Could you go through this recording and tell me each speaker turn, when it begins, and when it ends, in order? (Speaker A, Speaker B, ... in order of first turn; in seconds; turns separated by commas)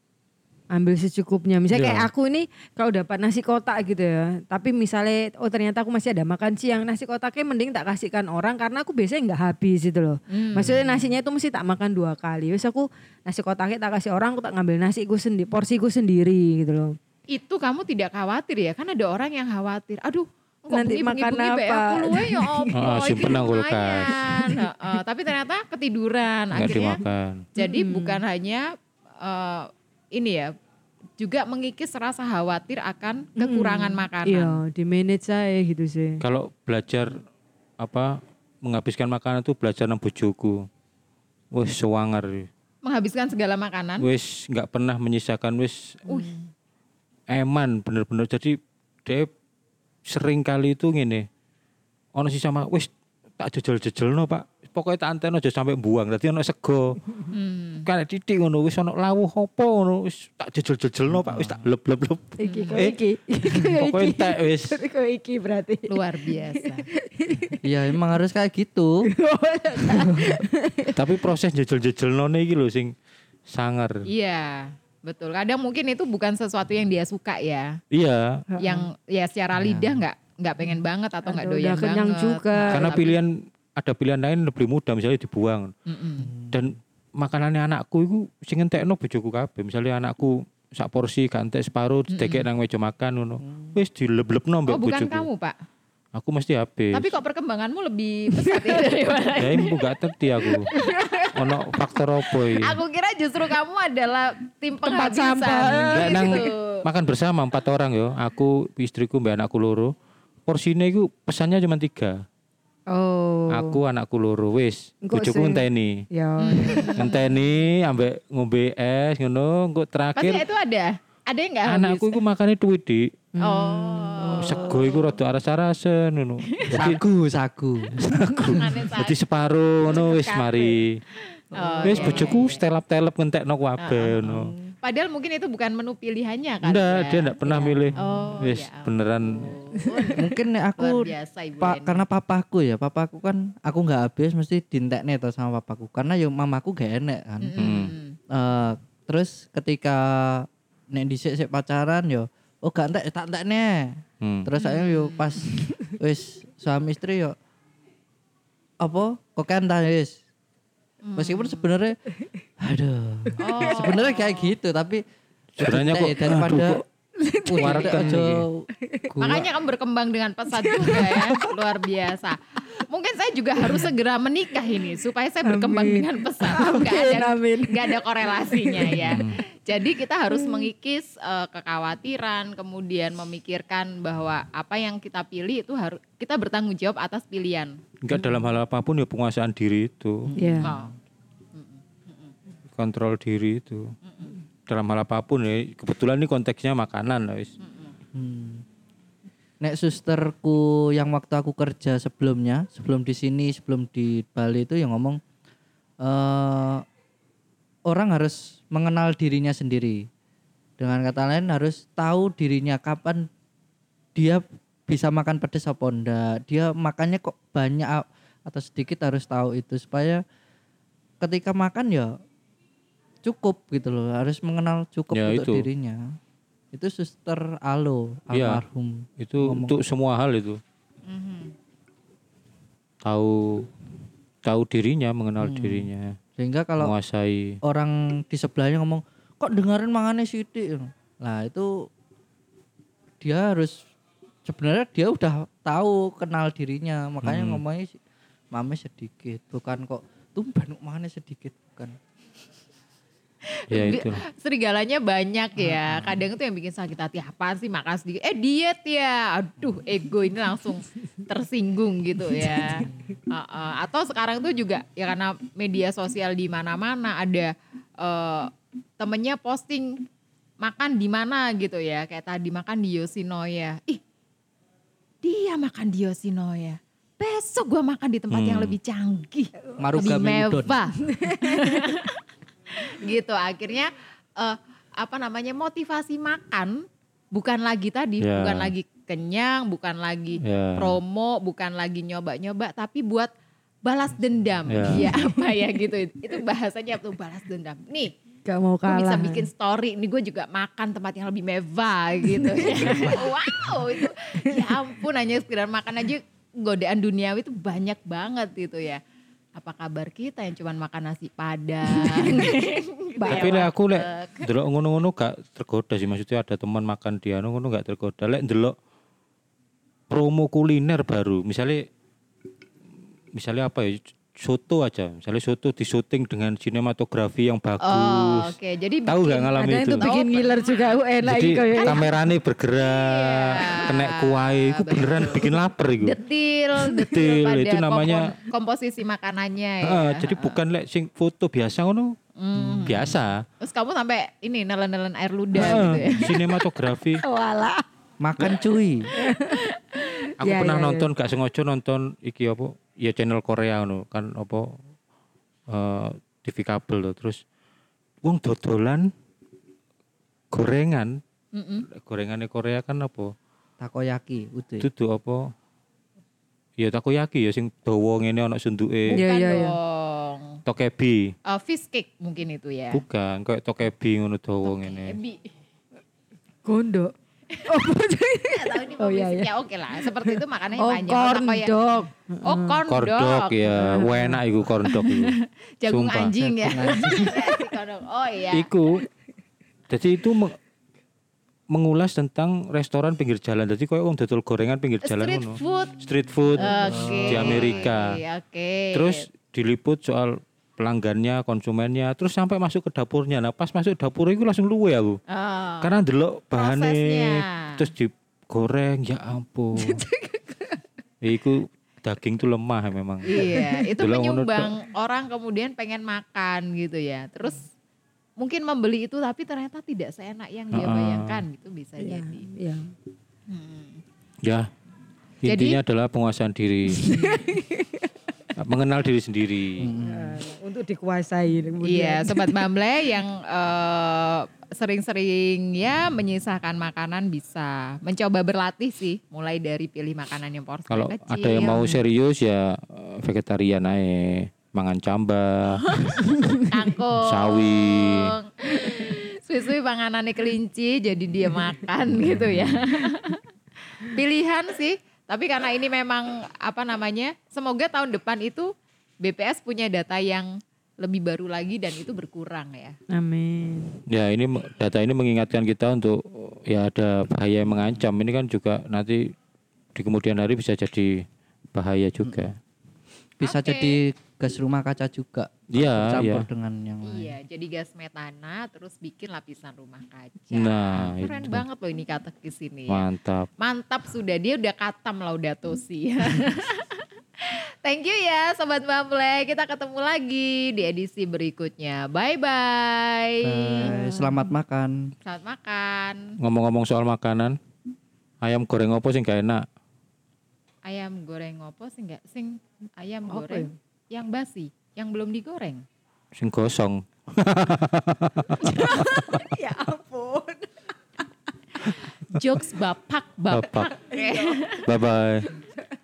Speaker A: 0.7-16.9, Speaker B: 1.7-2.1, Speaker C: 10.3-11.1, Speaker C: 17.3-27.0, Speaker A: 20.7-22.8, Speaker B: 22.7-24.2, Speaker A: 24.4-24.9, Speaker B: 26.5-27.4, Speaker C: 27.6-28.7, Speaker A: 27.6-28.2, Speaker C: 29.2-30.5, Speaker C: 31.2-34.6, Speaker A: 33.4-36.2, Speaker B: 36.2-37.2, Speaker B: 37.8-40.7, Speaker B: 41.5-42.5, Speaker C: 42.8-44.1, Speaker B: 44.0-46.0, Speaker C: 46.1-46.4, Speaker B: 47.3-49.3, Speaker B: 50.1-51.3, Speaker B: 52.1-57.0, Speaker C: 57.3-57.9, Speaker B: 57.9-63.0, Speaker D: 61.1-61.6, Speaker A: 62.4-67.5, Speaker C: 62.5-62.9, Speaker B: 63.5-64.8, Speaker C: 65.9-66.8, Speaker D: 67.6-68.9, Speaker A: 69.1-71.0, Speaker B: 70.9-72.9, Speaker B: 73.5-74.0, Speaker C: 74.0-77.8, Speaker B: 77.9-78.5, Speaker A: 78.5-78.9, Speaker C: 78.6-83.2, Speaker D: 79.5-80.0, Speaker A: 81.2-82.9, Speaker B: 82.7-85.7, Speaker C: 85.9-86.3, Speaker D: 86.2-86.7, Speaker B: 86.5-95.3, Speaker C: 92.1-92.4, Speaker D: 93.4-93.8, Speaker C: 94.7-95.5, Speaker B: 96.1-97.1, Speaker C: 96.9-99.9, Speaker A: 98.4-98.8, Speaker B: 99.3-100.7, Speaker C: 100.4-101.2, Speaker A: 100.7-101.3, Speaker B: 101.3-102.8, Speaker C: 102.2-106.8, Speaker A: 104.8-106.3, Speaker B: 105.9-109.9, Speaker B: 110.5-112.2, Speaker A: 112.9-113.8, Speaker B: 113.5-116.0, Speaker A: 115.0-117.0, Speaker C: 116.4-117.3, Speaker B: 116.9-120.4, Speaker C: 120.2-122.2, Speaker B: 121.7-123.1, Speaker A: 123.3-124.4, Speaker C: 123.4-125.2, Speaker D: 124.3-124.8, Speaker B: 124.3-127.0, Speaker D: 126.7-128.0, Speaker B: 127.9-131.0, Speaker C: 128.4-129.2, Speaker C: 129.8-130.8, Speaker C: 131.3-132.6, Speaker D: 131.6-132.4, Speaker B: 131.8-134.5, Speaker C: 133.8-140.3, Speaker B: 136.6-139.5, Speaker D: 137.9-138.2, Speaker A: 139.8-140.2, Speaker D: 140.2-147.6, Speaker C: 140.8-142.0, Speaker C: 147.4-148.2, Speaker B: 147.6-147.9, Speaker D: 148.3-157.3, Speaker B: 154.2-154.5, Speaker C: 154.6-155.4, Speaker D: 158.8-160.2, Speaker C: 161.0-161.7, Speaker D: 161.2-162.0, Speaker D: 162.6-165.0, Speaker C: 163.4-164.5, Speaker A: 163.4-163.9, Speaker B: 165.6-166.8, Speaker D: 165.6-166.8, Speaker A: 167.2-168.1, Speaker D: 167.5-169.5, Speaker B: 167.5-168.4, Speaker A: 168.8-169.1, Speaker C: 169.2-187.8, Speaker A: 170.5-171.5, Speaker A: 173.6-173.9, Speaker A: 175.4-179.1, Speaker B: 179.1-179.4, Speaker A: 180.3-180.7, Speaker B: 188.0-190.3, Speaker D: 190.2-190.9, Speaker A: 190.4-190.7, Speaker C: 190.6-190.9, Speaker C: 191.5-192.3, Speaker B: 192.7-193.9, Speaker C: 194.1-194.3, Speaker B: 194.7-197.5, Speaker C: 197.6-197.9, Speaker D: 198.1-198.6, Speaker D: 199.6-205.2, Speaker D: 206.0-206.8, Speaker D: 207.9-210.0, Speaker D: 210.8-213.3, Speaker D: 214.1-220.2, Speaker D: 221.2-222.1, Speaker D: 223.2-226.2, Speaker B: 225.1-225.7, Speaker D: 226.7-229.8, Speaker B: 228.3-228.6, Speaker B: 229.2-230.6, Speaker C: 231.1-231.5, Speaker B: 233.0-233.7, Speaker B: 234.4-236.2, Speaker D: 235.4-236.9, Speaker B: 236.8-237.6, Speaker D: 237.6-241.9, Speaker D: 243.2-243.8, Speaker D: 244.4-248.0, Speaker B: 247.2-247.6, Speaker D: 248.5-251.9, Speaker C: 253.4-270.0, Speaker B: 253.7-254.2, Speaker D: 255.6-256.2, Speaker A: 262.4-262.8, Speaker C: 270.6-274.0, Speaker C: 275.2-282.2, Speaker B: 278.3-278.7, Speaker D: 279.8-280.8, Speaker A: 281.0-281.9, Speaker C: 282.7-293.3, Speaker B: 288.2-288.7, Speaker B: 290.4-291.0, Speaker C: 293.8-298.1, Speaker B: 294.7-295.1, Speaker A: 295.0-295.5, Speaker A: 298.4-299.5, Speaker C: 298.9-309.0, Speaker A: 302.3-303.9, Speaker B: 302.8-303.2, Speaker A: 304.5-304.8, Speaker C: 309.6-314.5, Speaker A: 311.9-312.6, Speaker A: 313.2-313.6, Speaker B: 313.2-318.7, Speaker B: 320.1-321.9, Speaker B: 323.3-328.5, Speaker C: 327.8-331.0, Speaker B: 329.1-330.1, Speaker A: 329.6-332.0, Speaker B: 331.2-336.2, Speaker C: 331.8-332.1, Speaker C: 332.8-340.6, Speaker B: 337.0-338.3, Speaker B: 339.8-342.1, Speaker C: 342.4-346.5, Speaker B: 342.9-343.4, Speaker A: 345.6-346.5, Speaker B: 345.6-347.2, Speaker A: 347.1-347.8, Speaker D: 348.2-349.1, Speaker A: 349.1-351.1, Speaker B: 350.4-354.8, Speaker B: 355.7-357.4, Speaker B: 358.2-359.1, Speaker B: 360.5-361.2, Speaker C: 361.5-361.9, Speaker B: 361.9-363.3, Speaker D: 363.8-364.9, Speaker B: 364.8-365.5, Speaker B: 366.8-369.2, Speaker C: 369.1-370.6, Speaker A: 369.1-369.8, Speaker B: 370.6-371.3, Speaker C: 371.5-373.0, Speaker B: 372.9-375.2, Speaker C: 374.6-375.5, Speaker A: 376.6-377.1, Speaker A: 377.6-382.8, Speaker C: 378.5-381.7, Speaker C: 382.4-383.6, Speaker B: 382.9-385.4, Speaker A: 383.7-384.4, Speaker C: 384.9-388.7, Speaker B: 385.9-386.5, Speaker D: 386.5-387.4, Speaker A: 387.2-387.7, Speaker B: 388.5-389.0, Speaker B: 389.9-390.6, Speaker B: 391.7-398.2, Speaker C: 395.0-399.2, Speaker D: 396.6-397.9, Speaker B: 398.9-405.2, Speaker C: 405.3-406.0, Speaker B: 405.8-410.0, Speaker C: 406.6-407.9, Speaker A: 409.8-410.8, Speaker B: 411.2-413.2, Speaker C: 413.3-417.6, Speaker A: 413.3-413.8, Speaker B: 414.0-414.7, Speaker C: 418.4-422.4, Speaker B: 420.7-421.4, Speaker A: 422.0-422.9, Speaker C: 423.5-424.0, Speaker B: 424.4-424.7, Speaker B: 425.4-427.1, Speaker C: 425.4-425.8, Speaker A: 426.9-428.1, Speaker C: 427.1-427.5, Speaker B: 428.6-429.9, Speaker D: 429.8-430.4, Speaker A: 430.0-432.6, Speaker C: 431.8-441.9, Speaker B: 440.9-445.9, Speaker A: 441.6-442.0, Speaker C: 445.9-453.4, Speaker A: 446.2-446.7, Speaker B: 447.2-448.3, Speaker B: 452.1-452.8, Speaker C: 454.0-462.9, Speaker A: 463.1-463.9, Speaker B: 464.1-469.3, Speaker B: 469.9-472.6, Speaker D: 473.4-477.3, Speaker C: 473.4-474.0, Speaker B: 475.7-476.4, Speaker C: 477.0-483.1, Speaker B: 480.5-481.6, Speaker B: 482.9-483.5, Speaker C: 483.6-493.9, Speaker D: 493.4-495.1, Speaker A: 493.8-494.5, Speaker C: 495.2-496.2, Speaker B: 496.4-497.6, Speaker B: 498.4-499.6, Speaker C: 500.8-505.8, Speaker A: 503.3-503.7, Speaker B: 506.3-509.4, Speaker A: 508.6-510.8, Speaker C: 512.3-514.9, Speaker B: 513.5-513.9, Speaker A: 514.1-514.7, Speaker B: 514.8-515.5